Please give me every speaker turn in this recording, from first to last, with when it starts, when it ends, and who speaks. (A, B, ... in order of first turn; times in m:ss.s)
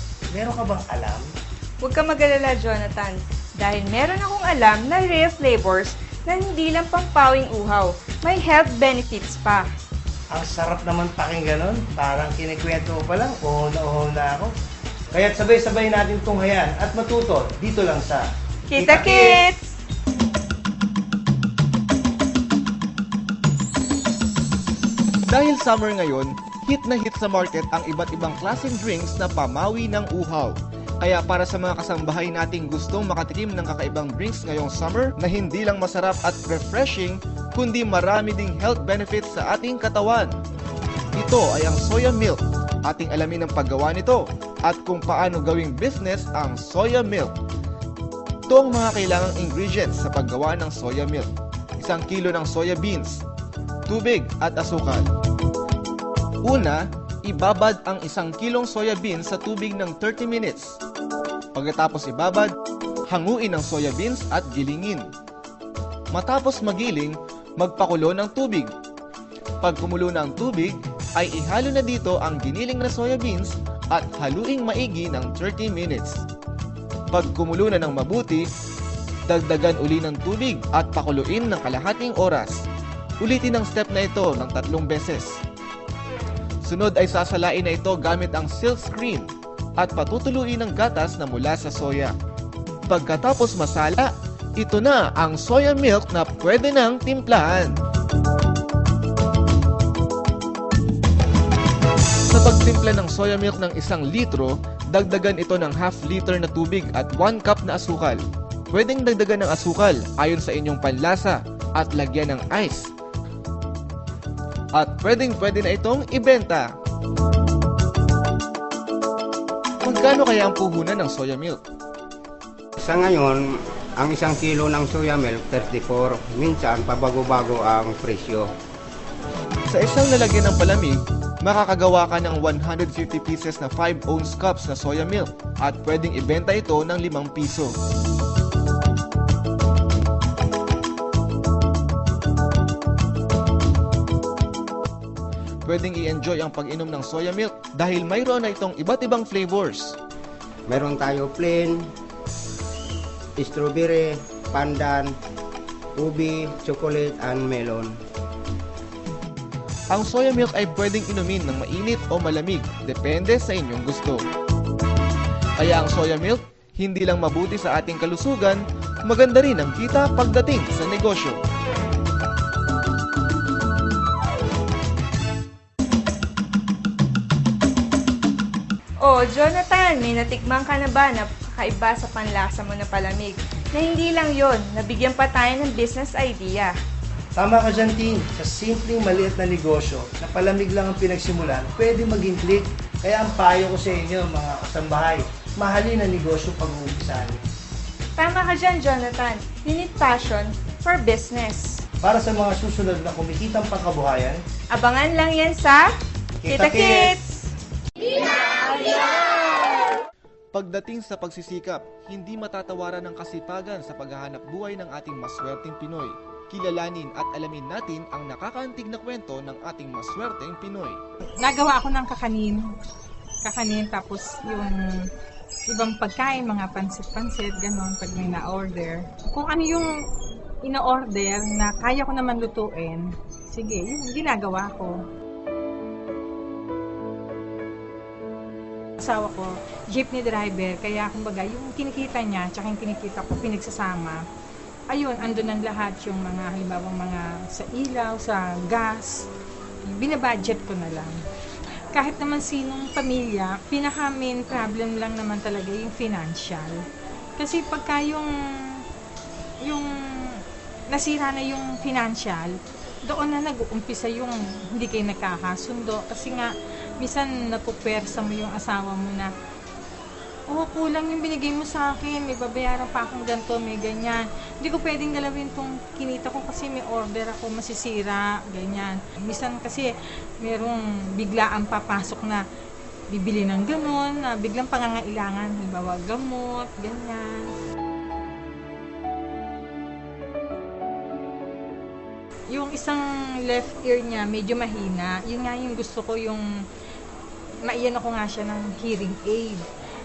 0:00.3-0:01.3 A
0:01.8-0:09.7 B
0:10.3-0:14.5 A
0:15.1-0:19.4 A
0:18.7-0:19.8 B
0:25.3-0:40.4 C
0:41.1-0:47.4 C
0:48.5-0:53.2 C
0:53.9-0:55.1 C
0:56.4-1:00.8 C
1:01.5-1:02.6 C
1:03.1-1:05.1 C
1:06.1-1:08.7 C
1:09.6-1:16.2 C
1:17.1-1:18.5 C
1:19.3-1:22.6 C
1:23.2-1:25.4 C
1:26.6-1:32.2 C
1:32.9-1:37.8 C
1:42.3-1:52.9 C
1:54.7-1:56.7 C
1:59.8-2:01.6 C
2:02.8-2:08.5 D
2:09.7-2:17.8 C
2:25.6-2:30.0 C
2:30.7-2:31.9 D
2:33.4-2:35.2 D
2:36.0-2:38.0 D
2:39.9-2:44.2 C
2:45.6-2:51.4 C
2:59.0-3:06.8 B
3:07.4-3:17.4 A
3:18.2-3:21.8 B
3:22.0-3:24.4 A
3:24.7-3:25.9 B
3:26.4-3:27.2 A
3:26.5-3:27.4 B
3:30.5-3:41.0 C
3:41.4-3:42.7 E
3:43.4-3:45.1 E
3:45.7-3:49.9 E
3:50.6-3:55.0 E
3:59.0-4:04.2 E
4:04.9-4:09.3 E
4:09.8-4:11.2 E
4:11.9-4:16.8 E
4:17.4-4:18.9 E
4:19.6-4:29.3 E
4:30.5-4:42.4 E
4:43.1-4:47.5 E
4:52.5-4:56.4 E
4:57.6-4:59.6 E